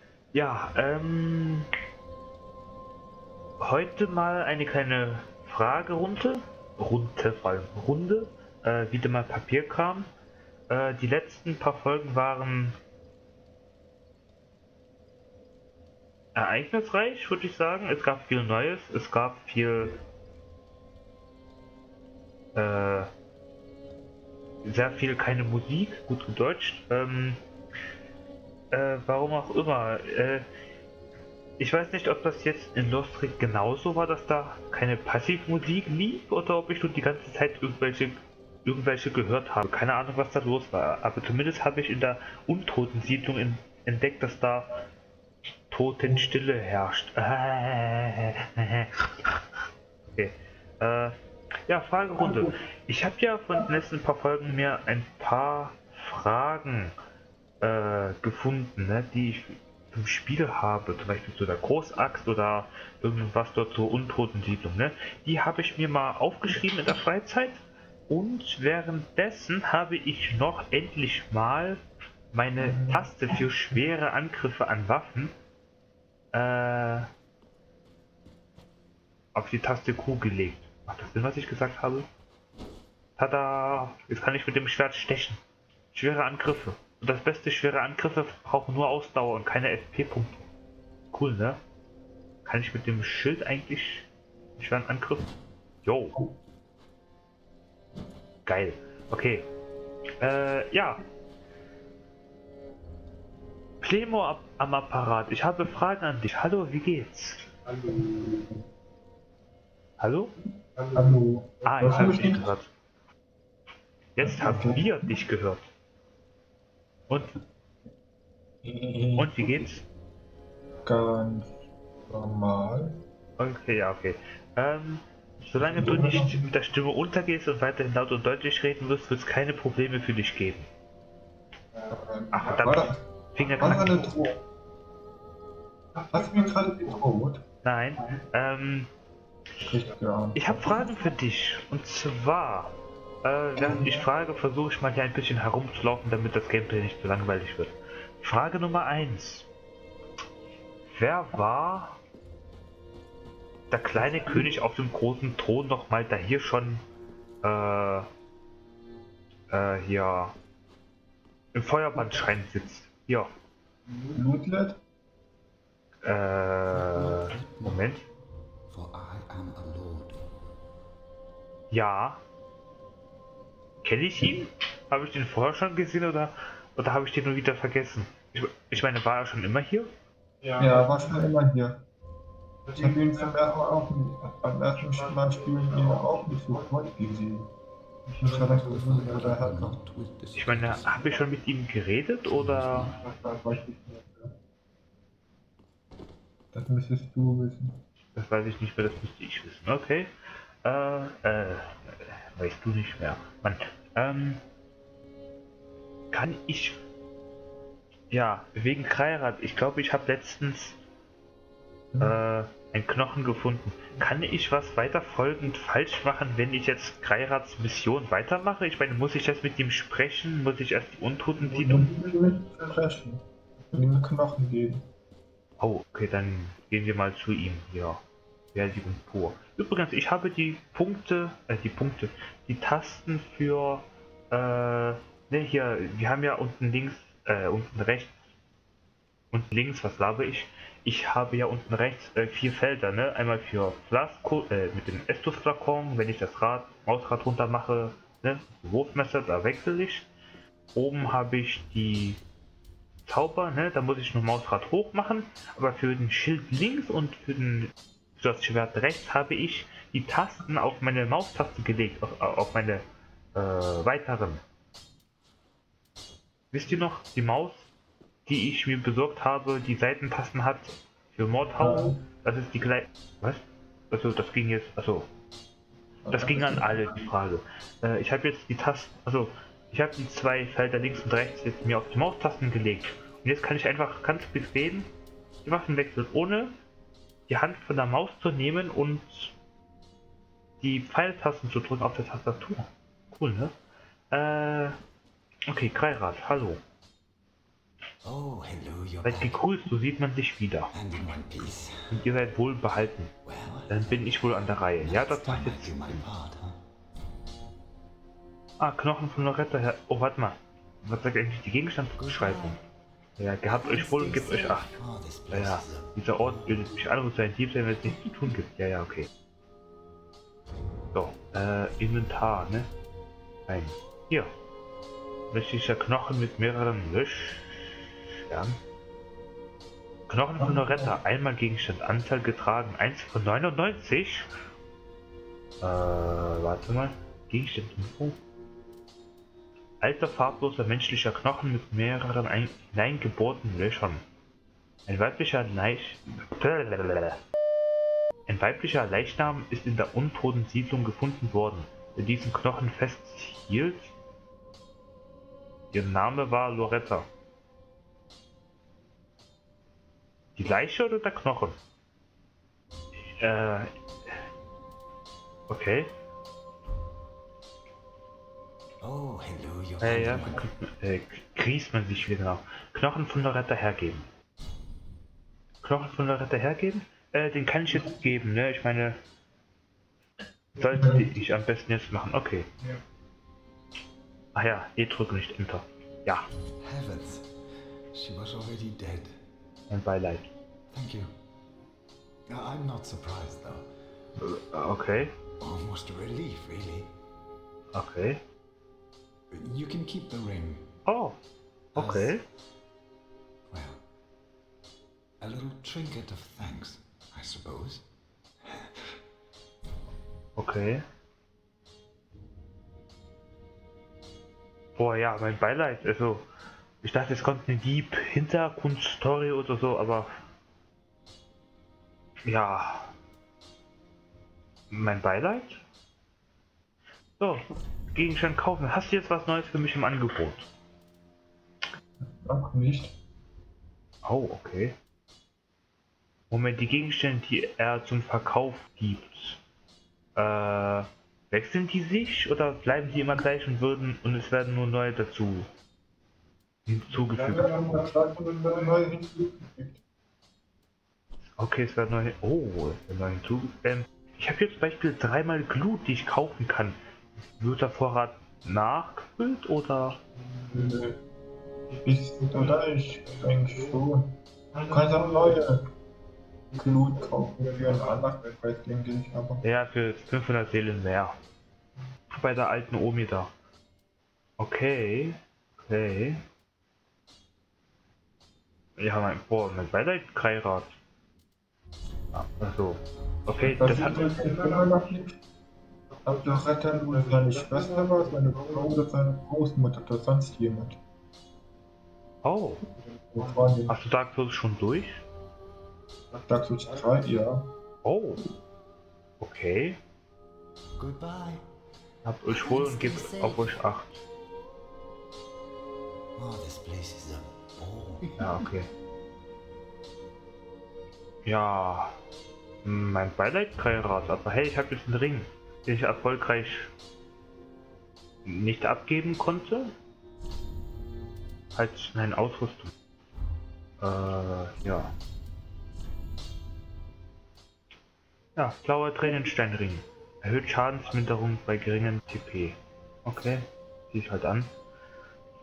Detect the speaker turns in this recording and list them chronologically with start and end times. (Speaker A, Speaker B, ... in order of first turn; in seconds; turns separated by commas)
Speaker A: 0.3-1.7, Speaker A: 3.6-10.1, Speaker A: 10.7-12.8, Speaker A: 16.3-19.9, Speaker A: 22.5-23.1, Speaker A: 24.6-27.4, Speaker A: 28.7-30.4, Speaker A: 31.6-44.7, Speaker A: 45.7-49.5, Speaker A: 50.1-51.1, Speaker A: 51.7-56.9, Speaker A: 57.6-71.8, Speaker A: 72.3-75.3, Speaker B: 72.6-73.1, Speaker A: 76.3-77.1, Speaker A: 79.3-82.0, Speaker A: 83.2-85.4, Speaker A: 85.9-90.5, Speaker A: 91.1-91.6, Speaker A: 92.4-94.0, Speaker A: 94.6-95.3, Speaker A: 95.8-96.2, Speaker A: 98.5-99.5, Speaker A: 100.2-101.0, Speaker A: 103.8-107.4, Speaker B: 107.9-108.6, Speaker A: 110.0-110.3, Speaker B: 110.9-112.5, Speaker A: 111.6-112.7, Speaker A: 114.1-115.6, Speaker B: 114.2-115.0, Speaker B: 118.6-119.7, Speaker A: 119.2-119.8, Speaker B: 120.8-121.5, Speaker B: 122.1-123.0, Speaker A: 123.4-130.7, Speaker B: 125.6-126.5, Speaker B: 131.9-133.0, Speaker A: 132.3-134.1, Speaker B: 133.6-134.4, Speaker B: 136.1-137.4, Speaker A: 137.6-138.9, Speaker B: 139.6-140.8, Speaker A: 140.3-142.7, Speaker A: 143.2-149.4, Speaker B: 143.6-143.9, Speaker A: 150.9-152.0, Speaker A: 153.7-156.8, Speaker A: 157.4-158.1, Speaker A: 159.5-160.3, Speaker A: 161.5-163.3, Speaker B: 164.1-164.8, Speaker A: 166.0-168.0, Speaker C: 166.7-168.0, Speaker C: 168.7-170.2, Speaker A: 171.7-172.2, Speaker A: 173.8-179.9, Speaker B: 180.6-181.8, Speaker B: 182.7-187.5, Speaker B: 188.2-189.8, Speaker C: 188.4-191.3, Speaker A: 190.3-192.9, Speaker C: 192.2-193.0, Speaker B: 193.1-194.3, Speaker B: 196.5-197.8, Speaker A: 198.1-200.1, Speaker A: 200.6-204.4, Speaker A: 206.1-206.8, Speaker A: 208.1-210.8, Speaker B: 211.9-212.2, Speaker A: 212.0-221.9, Speaker B: 221.6-224.9, Speaker A: 225.6-228.0, Speaker A: 228.5-238.1, Speaker A: 239.3-250.1, Speaker A: 250.7-252.2, Speaker A: 253.1-262.8, Speaker A: 263.3-264.4, Speaker A: 266.5-267.6, Speaker A: 268.2-275.1, Speaker B: 271.6-272.0, Speaker B: 276.0-277.1, Speaker A: 276.1-284.9, Speaker A: 285.4-286.5, Speaker A: 287.3-289.3, Speaker A: 290.6-293.5, Speaker A: 294.1-294.8, Speaker A: 295.5-296.6, Speaker C: 298.0-299.4, Speaker A: 299.0-300.7, Speaker C: 300.7-302.0, Speaker A: 301.9-303.1, Speaker C: 303.2-306.6, Speaker A: 303.7-306.0, Speaker A: 308.6-312.6, Speaker C: 312.0-312.6, Speaker A: 313.2-314.7, Speaker C: 313.5-316.7, Speaker A: 315.3-319.1, Speaker A: 320.9-322.7, Speaker A: 323.5-324.3, Speaker A: 325.3-328.6, Speaker A: 330.1-334.3, Speaker B: 330.4-331.0, Speaker A: 335.6-338.1, Speaker A: 339.8-344.0, Speaker A: 344.9-347.2, Speaker A: 348.3-353.9, Speaker A: 355.7-357.1, Speaker A: 360.4-361.6, Speaker A: 363.2-363.7, Speaker A: 365.5-365.9, Speaker C: 368.8-370.4, Speaker A: 369.8-374.1, Speaker A: 375.6-379.0, Speaker A: 380.6-382.5, Speaker B: 380.7-381.1, Speaker A: 384.3-386.2, Speaker C: 386.6-387.4, Speaker C: 387.9-389.2, Speaker A: 389.7-390.3, Speaker C: 390.7-391.1, Speaker C: 392.2-393.6, Speaker A: 394.2-395.1, Speaker C: 395.4-396.9, Speaker A: 397.7-398.2, Speaker C: 399.3-400.7, Speaker A: 400.9-401.1, Speaker C: 401.7-402.1, Speaker A: 401.7-402.2, Speaker C: 403.5-403.8, Speaker C: 405.2-407.9, Speaker C: 408.4-409.0, Speaker A: 410.4-410.8, Speaker A: 414.8-416.3, Speaker A: 416.8-420.1, Speaker A: 422.2-422.9, Speaker A: 424.7-425.6, Speaker A: 427.9-430.5, Speaker B: 432.0-432.9, Speaker A: 434.0-434.8, Speaker A: 436.3-439.4, Speaker A: 440.1-445.5, Speaker A: 446.7-447.8, Speaker B: 447.2-449.8, Speaker A: 451.4-456.8, Speaker A: 457.4-460.0, Speaker B: 460.5-461.0, Speaker B: 461.8-465.6, Speaker B: 466.6-469.4, Speaker A: 469.4-471.1, Speaker A: 472.1-473.3, Speaker A: 474.4-476.2, Speaker A: 478.8-480.7, Speaker A: 482.1-484.1, Speaker B: 483.4-485.2, Speaker B: 486.0-490.8, Speaker A: 492.2-492.6, Speaker B: 493.1-493.7, Speaker A: 493.7-495.0, Speaker B: 496.3-497.5, Speaker A: 497.8-498.2, Speaker A: 499.2-499.8, Speaker C: 500.8-501.4, Speaker A: 502.0-504.0, Speaker C: 502.3-503.6, Speaker C: 506.1-508.5, Speaker A: 508.2-508.7, Speaker A: 511.2-511.9, Speaker A: 512.6-516.7, Speaker A: 518.2-519.7, Speaker A: 521.5-522.7, Speaker A: 523.8-524.9, Speaker A: 528.4-534.5